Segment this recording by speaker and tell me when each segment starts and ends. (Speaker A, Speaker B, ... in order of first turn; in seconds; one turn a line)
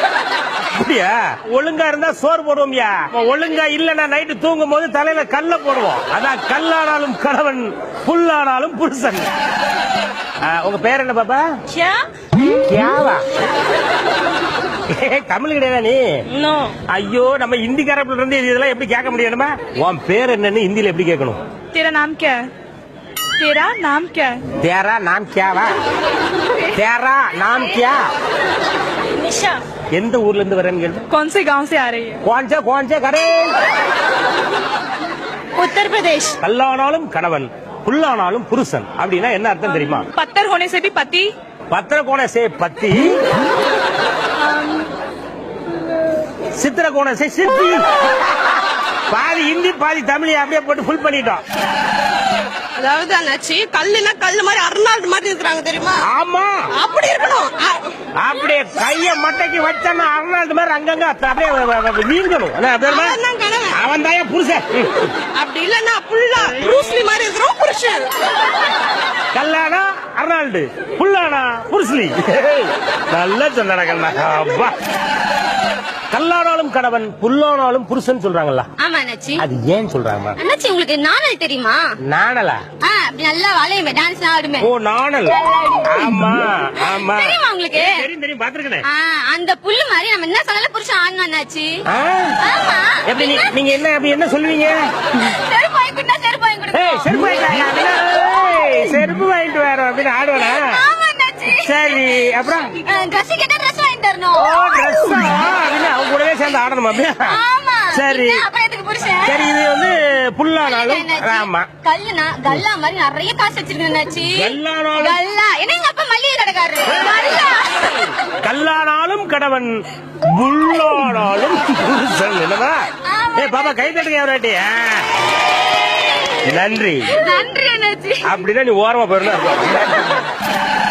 Speaker A: 0.6-9.3
Speaker A: 10.4-11.4
Speaker A: 12.6-13.2
Speaker A: 14.9-16.0
Speaker B: 16.4-16.7
Speaker A: 16.9-21.4
Speaker C: 21.7-22.4
Speaker C: 23.4-24.4
Speaker A: 24.6-25.7
Speaker A: 26.7-28.0
Speaker A: 29.9-31.0
Speaker C: 31.1-32.2
Speaker A: 32.2-33.5
Speaker C: 35.8-36.3
Speaker A: 36.4-40.0
Speaker C: 40.1-41.3
Speaker A: 41.7-43.2
Speaker A: 46.5-47.9
Speaker A: 49.1-51.4
Speaker D: 52.8-56.0
Speaker A: 56.0-56.5
Speaker D: 56.8-57.8
Speaker A: 58.2-63.2
Speaker D: 62.8-63.8
Speaker A: 63.7-65.1
Speaker D: 65.3-68.1
Speaker A: 69.3-74.7
Speaker A: 76.1-78.7
Speaker B: 78.8-79.4
Speaker A: 79.4-80.4
Speaker B: 80.4-81.8
Speaker A: 82.0-82.6
Speaker B: 82.8-84.7
Speaker A: 84.6-88.8
Speaker B: 85.2-88.0
Speaker B: 88.8-91.8
Speaker A: 91.9-92.4
Speaker B: 92.4-93.6
Speaker A: 93.0-94.8
Speaker B: 95.1-97.4
Speaker A: 96.7-100.8
Speaker B: 100.3-101.9
Speaker A: 101.5-102.7
Speaker B: 102.8-105.2
Speaker A: 104.4-107.4
Speaker B: 107.2-109.5
Speaker A: 107.9-108.4
Speaker A: 109.2-111.7
Speaker B: 110.6-118.1
Speaker A: 114.3-115.2
Speaker A: 116.8-117.4
Speaker A: 118.4-122.8
Speaker B: 123.0-123.8
Speaker A: 123.3-125.1
Speaker A: 126.5-127.1
Speaker B: 127.1-128.2
Speaker A: 128.2-130.2